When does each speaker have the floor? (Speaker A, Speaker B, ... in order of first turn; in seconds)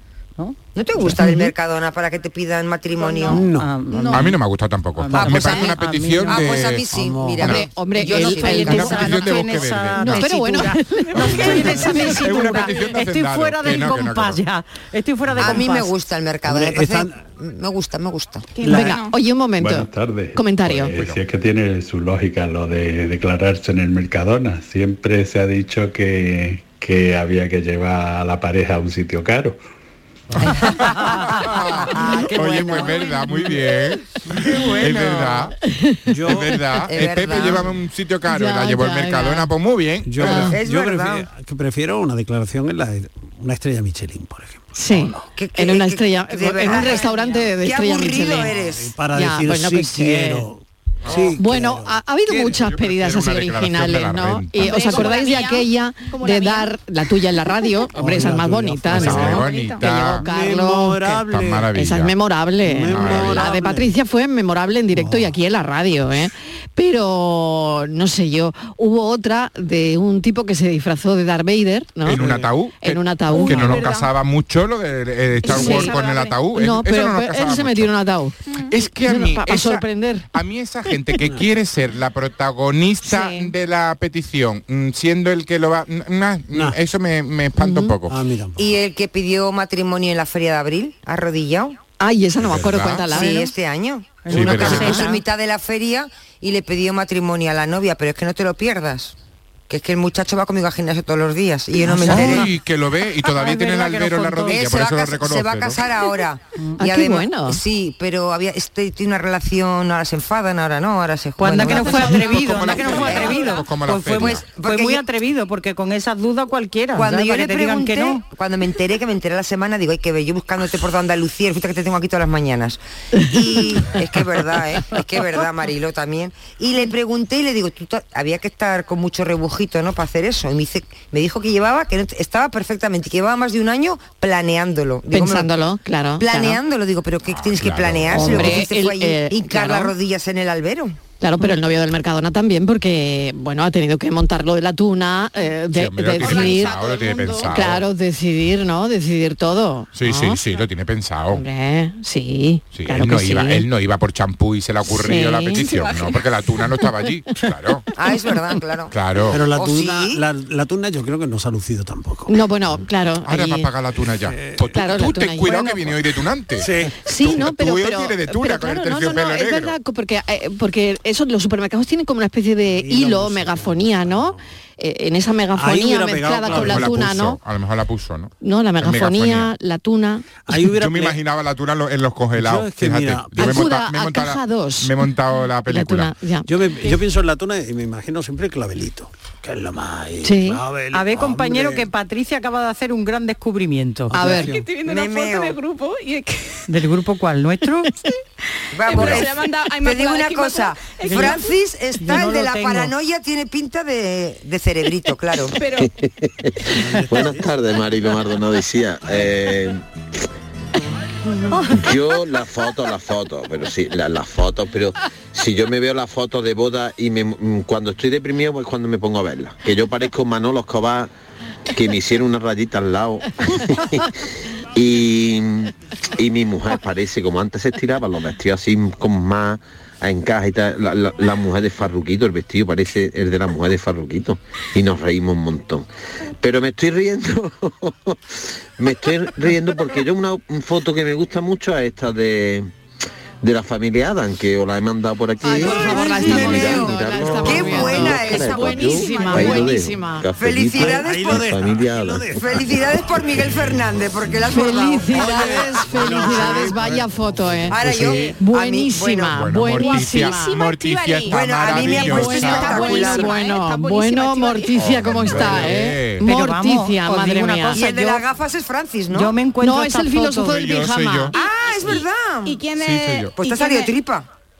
Speaker A: 0.7-3.4, 5.2-5.8, 6.3-9.2, 15.4-18.5, 31.9-33.0, 36.9-37.7, 40.5-41.2, 45.4-47.1, 47.6-48.9, 88.6-91.8, 93.1-99.1, 99.7-102.5, 104.5-113.4, 114.1-115.0, 116.9-135.5, 136.2-141.0, 157.9-158.9, 159.5-160.2, 194.8-195.6, 198.7-205.6, 245.8-248.7, 250.4-251.7, 252.3-256.7, 257.7-259.4, 261.3-263.4, 267.7-269.3, 271.3-272.6, 273.4-274.3
Speaker B: 1.1-1.5, 7.4-9.4, 10.0-12.7, 18.6-20.9, 35.7-36.0, 38.3-39.5, 40.2-40.6, 44.7-48.5, 49.1-50.4, 51.4-72.2, 72.8-73.9, 75.5-76.0, 76.5-78.4, 79.0-80.3, 83.0-83.5, 87.6-87.9, 92.0-93.5, 94.7-95.1, 106.8-107.6, 135.1-136.6, 138.1-139.9, 141.2-146.8, 147.4-150.4, 151.3-153.7, 154.8-155.8, 162.3-163.7, 164.7-165.9, 167.1-177.4, 178.4-180.3, 183.3-185.0, 185.7-186.5, 190.2-190.6, 194.1-194.5, 245.4-250.2, 254.5-257.8, 258.4-260.5, 262.0-267.8, 269.6-271.3
Speaker C: 3.0-4.2, 11.1-12.9, 18.5-19.1, 54.6-56.7, 57.4-57.9, 59.1-59.8, 73.3-74.1, 75.4-76.4, 78.5-78.8, 146.2-147.7, 155.6-156.2, 194.2-196.6, 198.9-201.6, 205.5-205.9, 248.1-249.8, 258.0-258.3, 259.7-265.3, 271.3-273.9
Speaker D: 3.3-4.3, 6.9-7.5, 15.3-15.6, 16.4-17.2, 18.6-18.9, 30.4-30.9, 36.1-36.6, 40.0-45.2, 48.5-52.0, 57.9-59.5, 60.0-61.7, 62.6-63.9, 64.9-65.3, 72.1-72.5, 86.5-86.8, 88.1-88.8, 159.3-162.4, 164.2-164.7, 166.6-166.9, 172.7-174.4, 175.5-177.2, 180.5-181.2, 182.4-183.6, 186.4-191.9, 194.1-194.7, 206.7-207.6, 250.7-253.0, 255.1-258.3
Speaker E: 3.5-4.3, 5.0-6.6, 8.0-15.9, 94.2-95.2, 102.0-102.5, 103.2-104.6, 111.4-118.2, 190.9-194.1, 196.7-197.9, 201.0-201.3, 202.0-202.9, 266.2-268.2, 269.1-270.6
Speaker F: 4.1-6.8, 7.4-7.7, 8.6-10.3, 12.1-14.4, 20.8-21.2, 30.5-35.5, 36.2-40.5, 51.0-51.4, 52.3-55.2, 58.9-60.2, 61.3-62.1, 62.9-63.5, 72.0-77.9, 78.7-88.2, 92.4-93.2, 94.3-95.0, 102.0-105.8, 112.2-114.5, 137.2-138.7, 145.7-147.8, 149.9-151.4, 152.7-157.9, 158.9-159.4, 163.2-169.8, 176.4-179.5, 180.6-186.1, 259.3-263.0, 264.8-266.2, 270.4-271.3, 272.8-273.3
Speaker G: 19.6-29.6
Speaker H: 205.8-209.8, 211.7-221.1, 221.7-224.1, 224.7-235.9, 236.4-242.7, 243.4-252.4